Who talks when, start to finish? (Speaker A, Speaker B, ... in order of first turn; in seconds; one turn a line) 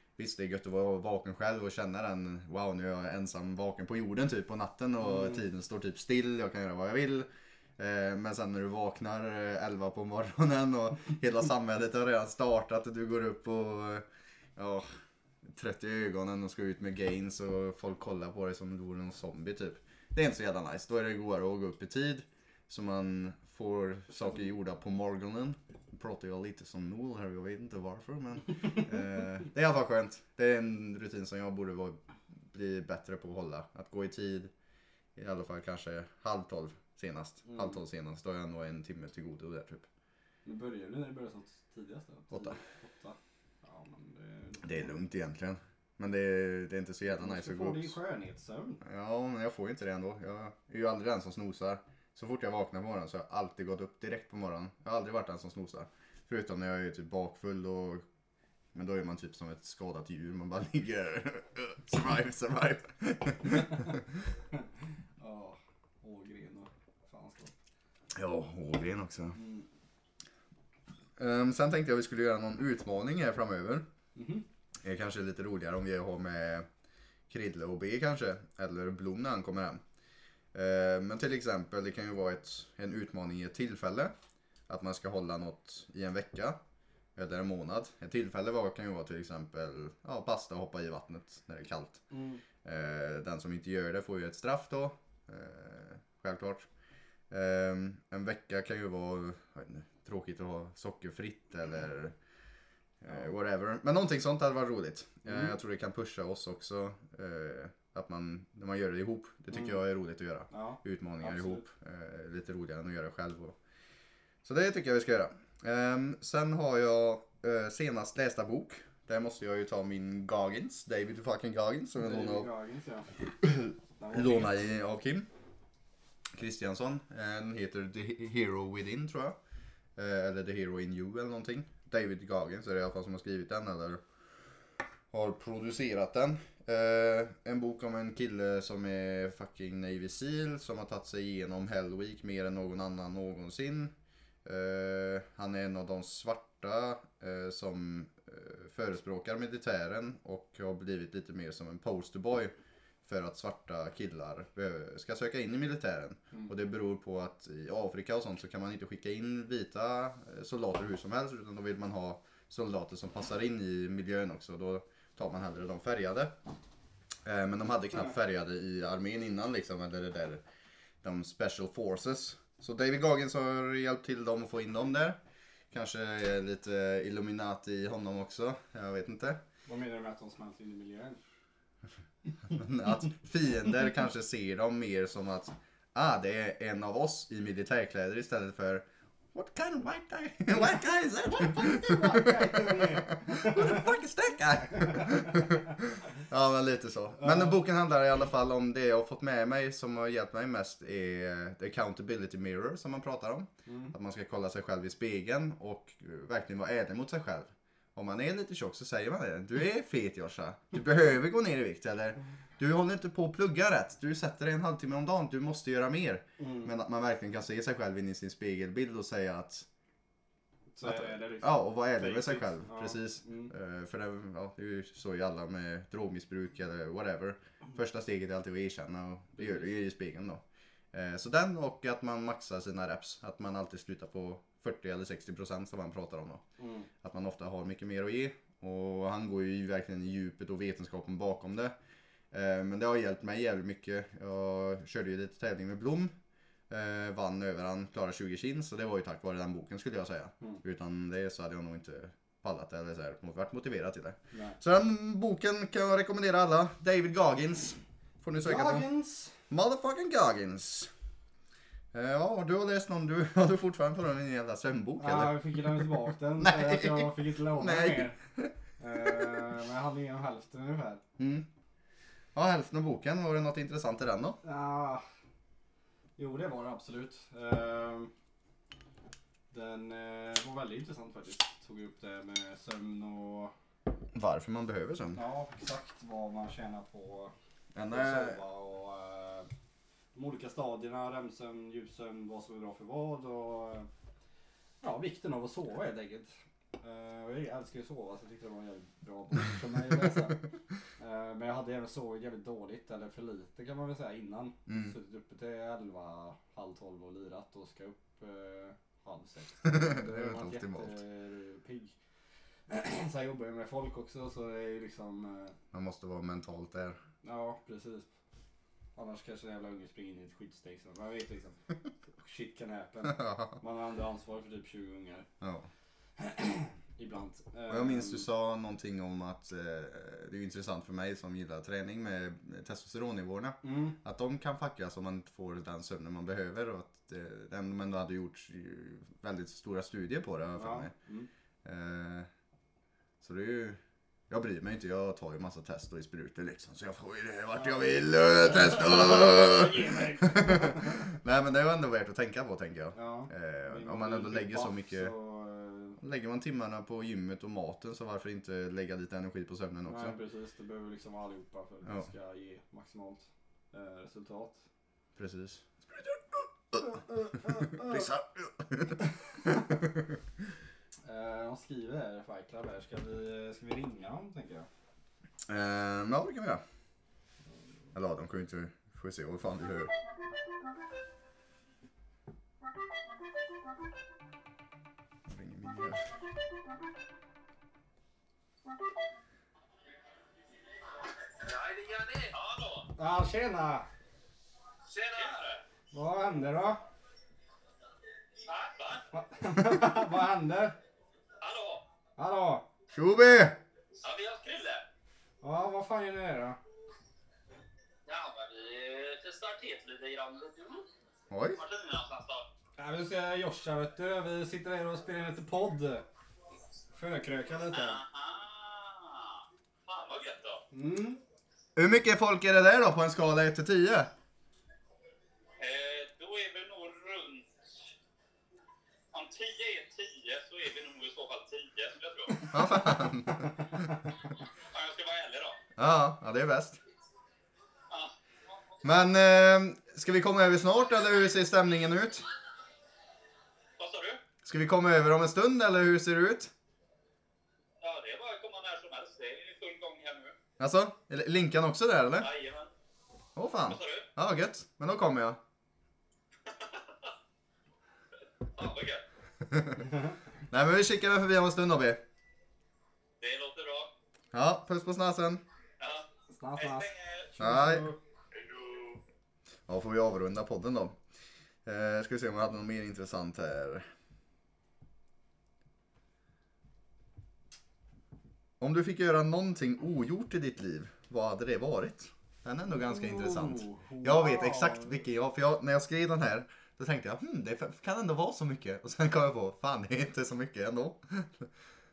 Speaker A: 0.2-7.3
Speaker B: 5.1-5.4
Speaker A: 7.8-14.1
Speaker A: 14.6-32.0
Speaker A: 32.5-34.5
Speaker A: 35.2-39.9
Speaker B: 37.5-37.8
Speaker B: 40.5-45.0
Speaker A: 42.3-42.6
Speaker A: 44.6-47.9
Speaker B: 47.1-48.8
Speaker A: 48.8-58.0
Speaker A: 58.7-64.0
Speaker B: 63.7-64.0
Speaker B: 65.2-67.5
Speaker A: 68.2-69.4
Speaker B: 69.3-69.7
Speaker A: 71.2-73.9
Speaker B: 74.2-74.5
Speaker A: 74.8-76.7
Speaker A: 77.3-79.8
Speaker A: 80.5-84.1
Speaker A: 84.7-86.6
Speaker A: 87.2-92.0
Speaker B: 92.1-92.4
Speaker A: 92.6-96.7
Speaker A: 97.3-102.1
Speaker A: 103.0-113.6
Speaker B: 105.3-105.6
Speaker B: 109.5-109.8
Speaker B: 110.5-111.7
Speaker A: 114.4-122.5
Speaker B: 122.0-123.3
Speaker A: 123.4-125.3
Speaker B: 124.0-124.6
Speaker A: 126.3-129.4
Speaker A: 130.0-134.0
Speaker A: 135.1-143.9
Speaker A: 144.4-152.5
Speaker A: 153.1-166.3
Speaker A: 167.2-170.4
Speaker A: 171.0-175.2
Speaker A: 175.7-179.4
Speaker B: 179.7-181.2
Speaker A: 182.5-219.7
Speaker B: 191.3-193.8
Speaker B: 194.9-195.5
Speaker B: 197.2-197.6
Speaker B: 203.7-203.9
Speaker B: 216.4-216.7
Speaker B: 220.8-223.5
Speaker A: 220.8-236.4
Speaker B: 229.4-229.7
Speaker B: 236.6-236.9
Speaker A: 237.0-241.8
Speaker A: 242.3-246.1
Speaker A: 246.7-258.9
Speaker B: 254.3-254.6
Speaker B: 258.4-259.4
Speaker A: 259.5-260.9
Speaker A: 261.9-265.8
Speaker B: 265.0-268.2
Speaker A: 266.4-268.5
Speaker B: 268.8-271.0
Speaker A: 271.2-271.5
Speaker A: 272.4-274.4
Speaker B: 274.4-275.0
Speaker B: 276.2-278.1
Speaker B: 279.5-283.5
Speaker A: 284.1-285.2
Speaker B: 285.1-287.3
Speaker A: 287.8-288.4
Speaker B: 287.9-289.5
Speaker B: 290.1-293.9
Speaker B: 294.8-300.4
Speaker B: 301.0-311.9
Speaker A: 304.7-304.9
Speaker A: 309.6-311.0
Speaker B: 312.7-315.6
Speaker A: 315.7-317.0
Speaker B: 317.2-318.1
Speaker B: 319.0-321.6
Speaker B: 322.1-325.3
Speaker A: 323.1-323.5
Speaker A: 325.4-325.7
Speaker B: 326.2-328.3
Speaker A: 327.7-340.9
Speaker B: 333.6-334.0
Speaker B: 340.6-341.3
Speaker A: 341.6-342.3
Speaker A: 343.2-355.1
Speaker B: 347.5-351.0
Speaker B: 352.9-356.0
Speaker A: 356.0-360.2
Speaker B: 359.9-364.6
Speaker A: 365.2-366.9
Speaker B: 366.9-368.1
Speaker A: 367.4-369.8
Speaker B: 371.1-374.7
Speaker A: 375.5-376.6
Speaker A: 377.9-379.9
Speaker A: 385.3-386.2
Speaker C: 391.3-392.9
Speaker B: 393.0-393.9
Speaker C: 394.9-395.6
Speaker B: 395.9-396.8
Speaker C: 398.5-399.1
Speaker B: 399.1-400.8
Speaker C: 401.4-401.8
Speaker B: 402.2-402.7
Speaker A: 402.9-403.6
Speaker C: 404.0-404.9
Speaker B: 405.4-406.6
Speaker C: 408.1-410.9
Speaker A: 411.3-411.6
Speaker C: 411.6-412.5
Speaker B: 412.8-416.1
Speaker B: 416.9-418.0
Speaker C: 417.7-420.6
Speaker B: 420.7-421.2
Speaker A: 421.8-424.1
Speaker C: 425.6-427.5
Speaker C: 429.1-432.6
Speaker A: 432.5-433.8
Speaker C: 434.6-435.6
Speaker A: 435.8-436.8
Speaker C: 437.9-438.8
Speaker A: 438.8-442.3
Speaker C: 443.8-444.2
Speaker A: 444.4-446.5
Speaker C: 447.8-450.3
Speaker A: 450.6-452.3
Speaker C: 452.2-452.7
Speaker A: 453.4-455.4
Speaker C: 453.7-454.1
Speaker C: 456.5-457.1
Speaker C: 458.6-459.0
Speaker A: 459.4-459.9
Speaker A: 460.5-462.0
Speaker C: 463.2-463.9
Speaker A: 464.3-465.4
Speaker C: 465.8-466.1
Speaker B: 466.3-468.0
Speaker C: 466.6-467.3
Speaker A: 467.4-467.9
Speaker C: 468.3-469.0
Speaker A: 469.7-471.0
Speaker A: 471.6-473.9
Speaker A: 478.6-491.5
Speaker B: 482.7-485.0